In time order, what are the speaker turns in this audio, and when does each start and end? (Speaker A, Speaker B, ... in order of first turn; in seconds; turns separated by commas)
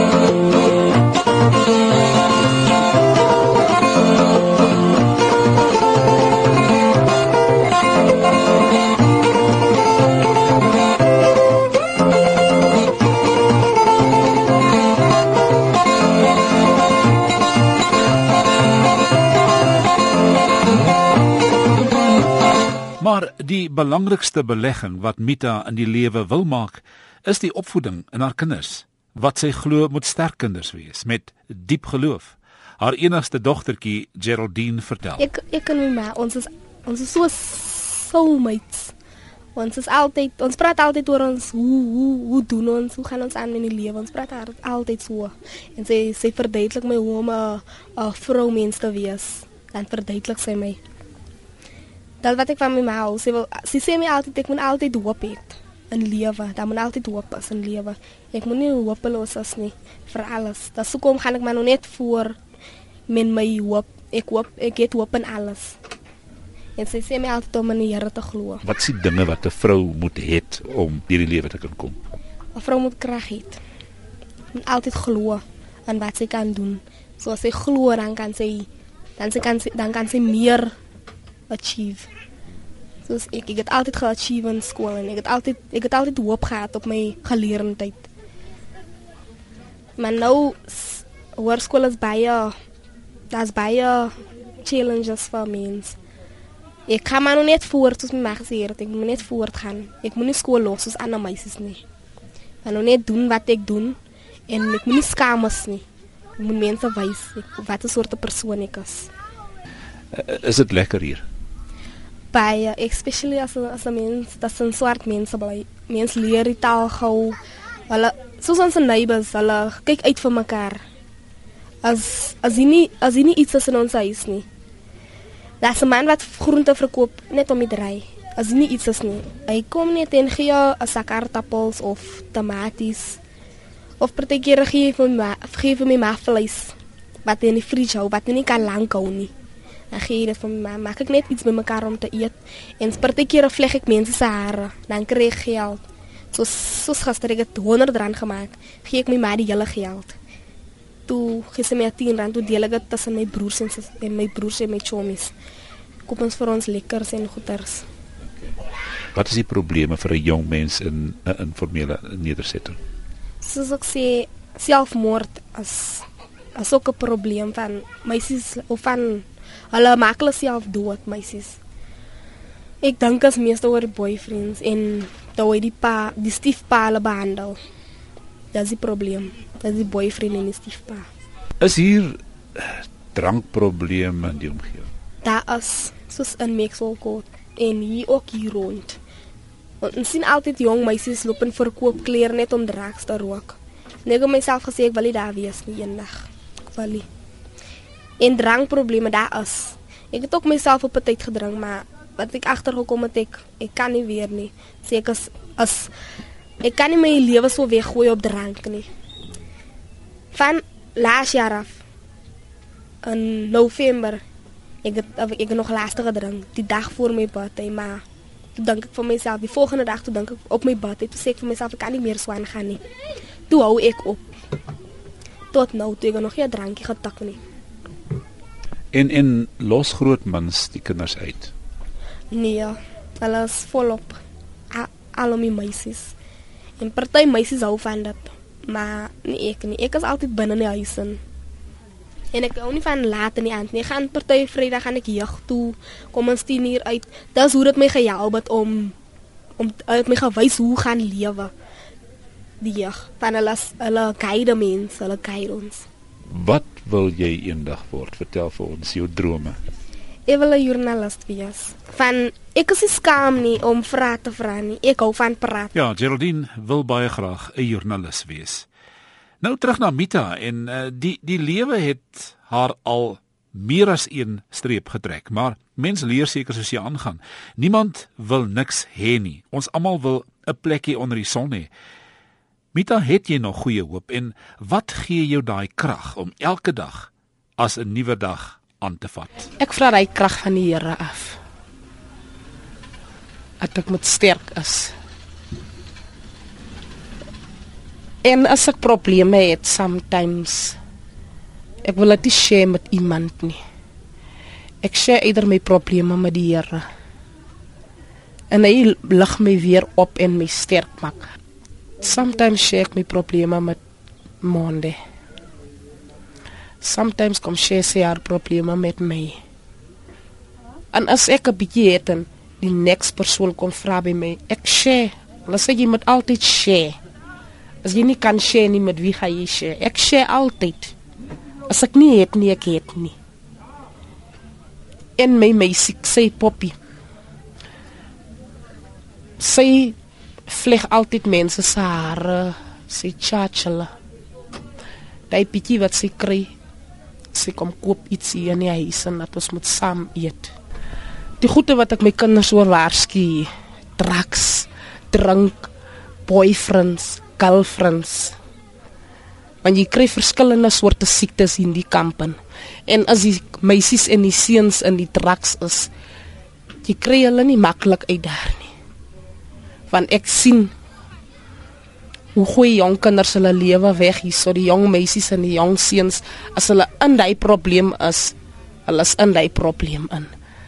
Speaker A: 23.0-35.2, Speaker B: 35.2-38.9, Speaker B: 39.5-50.8, Speaker B: 52.2-62.4, Speaker B: 63.1-65.8, Speaker B: 66.8-68.6, Speaker A: 68.6-72.0, Speaker B: 72.5-73.6, Speaker B: 74.5-80.7, Speaker B: 81.5-82.1, Speaker B: 83.0-88.1, Speaker B: 90.0-92.5, Speaker B: 93.3-96.0, Speaker B: 96.9-101.8, Speaker B: 102.6-104.0, Speaker B: 104.5-105.8, Speaker B: 106.4-109.1, Speaker A: 110.1-111.2, Speaker B: 112.3-117.4, Speaker B: 117.9-120.8, Speaker B: 121.8-124.5, Speaker B: 125.6-133.2, Speaker B: 134.0-136.7, Speaker B: 137.2-139.3, Speaker B: 139.9-145.8, Speaker B: 146.3-150.2, Speaker B: 151.1-155.3, Speaker B: 156.1-157.8, Speaker A: 159.1-162.8, Speaker B: 163.4-166.1, Speaker B: 166.6-171.6, Speaker B: 172.8-177.6, Speaker B: 178.5-181.0, Speaker A: 181.6-184.9, Speaker B: 185.2-189.0, Speaker B: 189.8-197.1, Speaker B: 198.2-205.9, Speaker B: 206.6-208.9, Speaker B: 210.3-211.8, Speaker B: 213.0-214.2, Speaker B: 214.8-218.0, Speaker B: 218.5-222.8, Speaker B: 223.5-224.4, Speaker B: 225.5-227.4, Speaker A: 228.9-231.5, Speaker B: 232.3-234.2, Speaker B: 234.7-236.1, Speaker B: 236.8-241.2, Speaker B: 242.3-248.9, Speaker B: 249.6-251.5, Speaker B: 252.6-255.9, Speaker A: 256.3-259.6, Speaker B: 260.3-265.7, Speaker A: 265.7-268.7, Speaker A: 269.4-281.7, Speaker A: 282.7-289.4, Speaker C: 289.6-291.4, Speaker C: 293.6-294.9, Speaker C: 298.2-300.8, Speaker C: 301.8-303.6, Speaker C: 304.8-306.9, Speaker C: 308.5-311.2, Speaker C: 312.0-313.8, Speaker C: 314.4-315.0, Speaker C: 316.8-319.4, Speaker C: 320.9-326.9, Speaker C: 327.8-330.9, Speaker C: 331.7-333.1, Speaker C: 335.2-336.7, Speaker C: 339.4-339.9, Speaker C: 340.5-343.9, Speaker C: 345.3-346.5, Speaker C: 347.3-350.5, Speaker C: 351.4-355.7, Speaker C: 356.3-358.4, Speaker C: 359.6-365.9, Speaker C: 366.8-368.7, Speaker C: 369.9-370.7, Speaker C: 372.4-378.3, Speaker C: 378.9-380.3